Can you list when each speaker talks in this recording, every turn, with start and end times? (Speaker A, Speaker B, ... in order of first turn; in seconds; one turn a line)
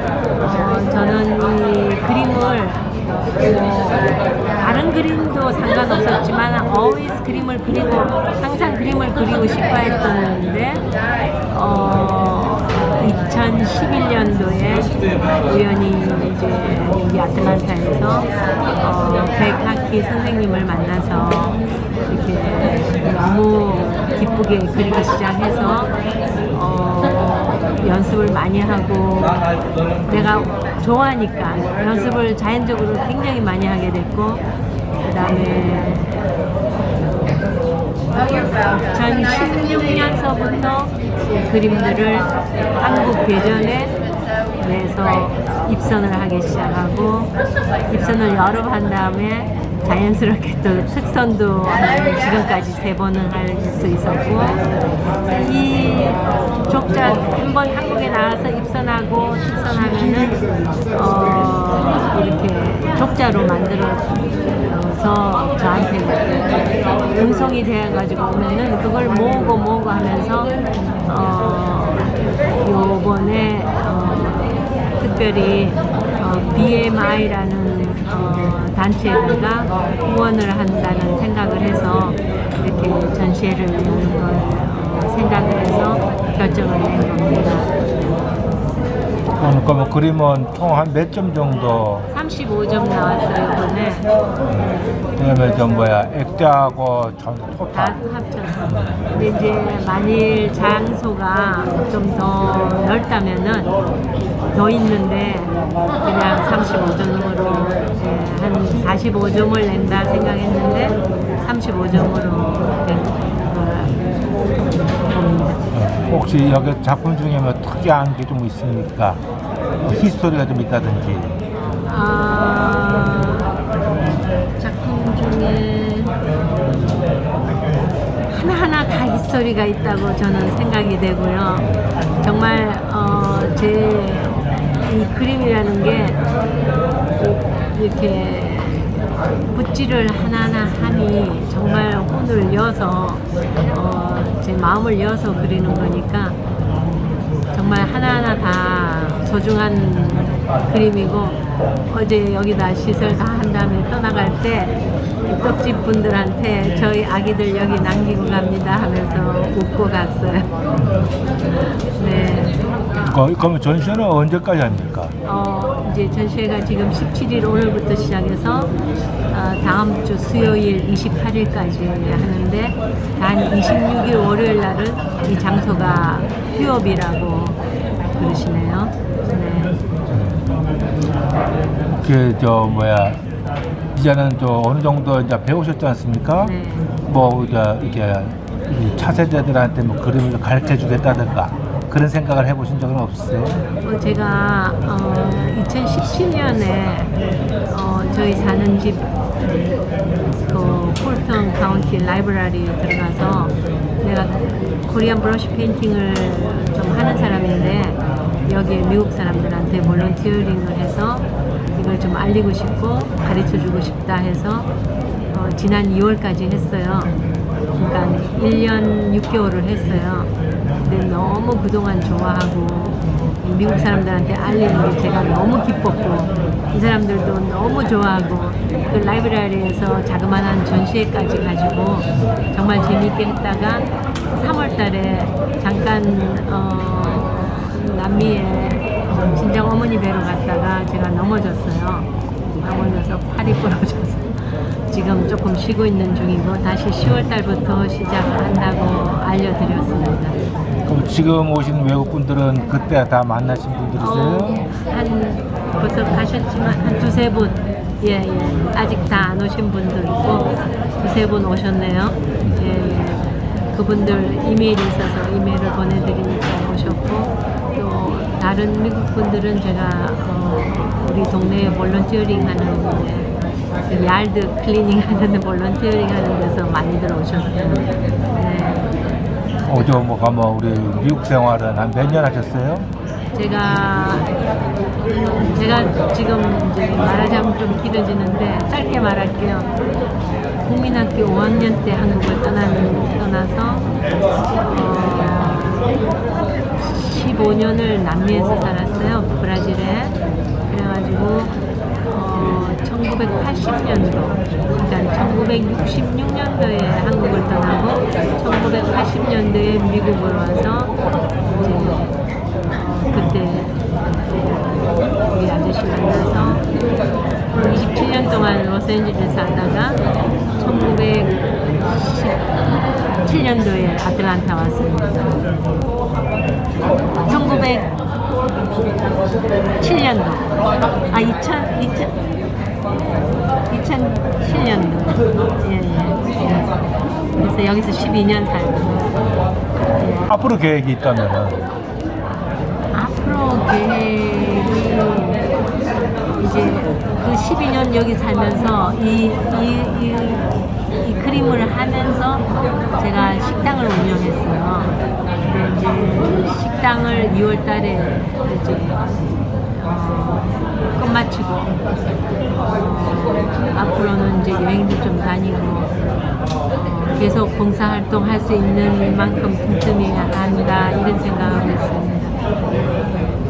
Speaker A: 0.4-2.9
Speaker A: 3.4-10.8
Speaker A: 11.5-14.9
Speaker A: 15.4-18.3
Speaker A: 18.8-25.9
Speaker A: 26.5-29.5
Speaker A: 30.1-34.4
Speaker A: 35.0-36.1
Speaker A: 38.9-43.9
Speaker A: 44.6-47.3
Speaker A: 47.9-54.6
Speaker A: 55.3-60.4
Speaker A: 60.9-66.5
Speaker A: 67.2-70.5
Speaker A: 71.1-87.7
Speaker B: 89.4-92.1
Speaker A: 92.1-94.1
Speaker B: 94.5-98.0
Speaker A: 97.7-103.7
Speaker B: 98.6-99.1
Speaker A: 104.5-114.0
Speaker A: 115.0-115.6
Speaker B: 115.7-119.2
Speaker B: 119.8-121.4
Speaker A: 121.8-123.5
Speaker A: 124.6-126.2
Speaker A: 128.3-136.2
Speaker B: 131.6-131.9
Speaker A: 137.2-146.4
Speaker A: 147.5-160.5
Speaker B: 160.8-161.1
Speaker A: 161.9-162.6
Speaker B: 163.0-165.2
Speaker A: 165.2-168.7
Speaker A: 169.3-177.6
Speaker A: 178.2-179.7
Speaker B: 180.1-180.5
Speaker B: 182.0-183.2
Speaker B: 183.9-193.7
Speaker A: 186.4-186.9
Speaker A: 193.8-197.1
Speaker A: 197.7-199.1
Speaker A: 200.5-214.7
Speaker A: 215.3-217.1
Speaker A: 217.7-220.3
Speaker A: 220.8-242.1
Speaker A: 242.6-250.4
Speaker B: 250.9-254.7
Speaker A: 254.0-273.3
Speaker A: 273.9-278.9
Speaker B: 278.0-278.4
Speaker B: 279.7-282.9
Speaker A: 283.3-284.3
Speaker A: 285.4-289.7
Speaker A: 290.6-293.9
Speaker A: 294.7-296.0
Speaker A: 296.8-300.2
Speaker A: 300.7-301.5
Speaker A: 302.1-310.9
Speaker A: 311.5-312.1
Speaker A: 312.7-316.6
Speaker A: 317.5-320.0
Speaker A: 320.6-322.6
Speaker A: 323.2-325.4
Speaker A: 327.2-327.9
Speaker A: 329.8-330.6
Speaker A: 331.1-332.2
Speaker A: 333.1-336.7
Speaker A: 337.4-339.1
Speaker B: 339.2-339.5
Speaker A: 339.9-340.3
Speaker B: 340.3-341.7
Speaker A: 342.9-345.4
Speaker A: 346.4-352.4
Speaker A: 353.0-359.0
Speaker A: 359.7-361.8
Speaker A: 362.6-365.9
Speaker A: 366.7-372.4